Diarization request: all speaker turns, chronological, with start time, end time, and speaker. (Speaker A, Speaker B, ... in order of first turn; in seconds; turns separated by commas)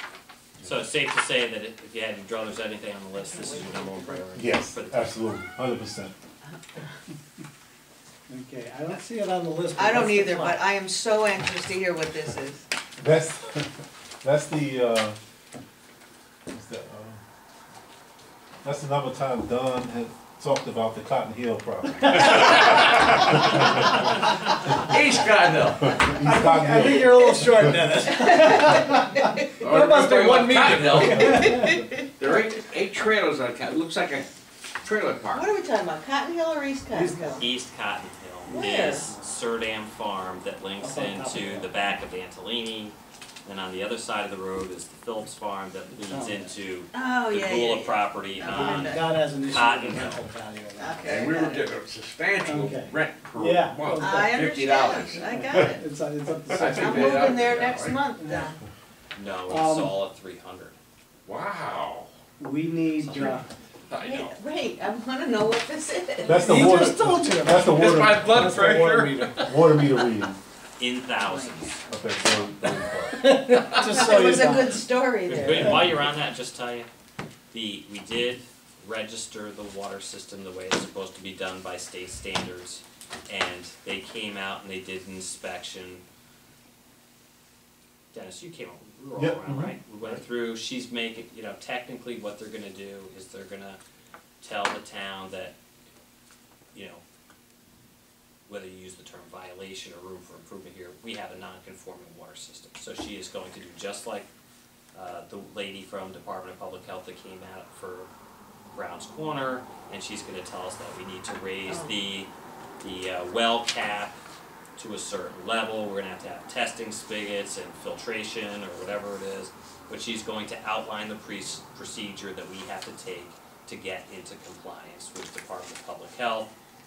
Speaker A: 0.6-5.1, Speaker B: 4.3-6.1, Speaker C: 8.3-10.6, Speaker D: 9.8-12.7, Speaker B: 13.0-15.2, Speaker B: 16.5-17.2, Speaker B: 18.6-22.7, Speaker E: 22.2-23.6, Speaker E: 24.7-26.0, Speaker B: 25.8-27.9, Speaker C: 26.2-31.8, Speaker D: 28.2-29.4, Speaker E: 29.6-31.4, Speaker B: 31.0-31.4, Speaker D: 31.2-32.0, Speaker E: 32.2-34.3, Speaker E: 34.8-35.5, Speaker D: 35.3-37.5, Speaker C: 36.9-37.5, Speaker A: 37.4-50.3, Speaker D: 38.5-39.1, Speaker C: 40.8-41.7, Speaker C: 46.0-46.5, Speaker D: 46.9-49.2, Speaker C: 48.5-51.1, Speaker D: 50.8-51.7, Speaker E: 51.0-55.3, Speaker C: 52.4-54.6, Speaker D: 54.0-55.9, Speaker C: 55.2-57.4, Speaker E: 56.5-58.0, Speaker D: 56.5-58.6, Speaker C: 58.2-58.5, Speaker A: 59.1-60.8, Speaker C: 59.5-60.0, Speaker E: 61.3-62.1, Speaker C: 62.4-63.5, Speaker A: 63.0-63.4, Speaker E: 63.9-64.3, Speaker D: 64.0-66.8, Speaker B: 66.2-68.6, Speaker C: 66.3-69.5, Speaker E: 67.6-69.6, Speaker B: 69.4-70.4, Speaker A: 70.8-71.9, Speaker D: 71.2-71.5, Speaker B: 71.9-73.3, Speaker C: 73.1-74.8, Speaker D: 73.7-76.0, Speaker A: 75.3-76.9, Speaker A: 77.5-86.0, Speaker A: 88.1-93.8, Speaker B: 89.2-89.8, Speaker A: 94.4-95.5, Speaker A: 96.7-97.0, Speaker A: 98.5-104.3, Speaker A: 104.9-108.1, Speaker A: 108.8-112.3, Speaker D: 111.7-111.9, Speaker A: 112.8-114.2, Speaker A: 114.8-126.5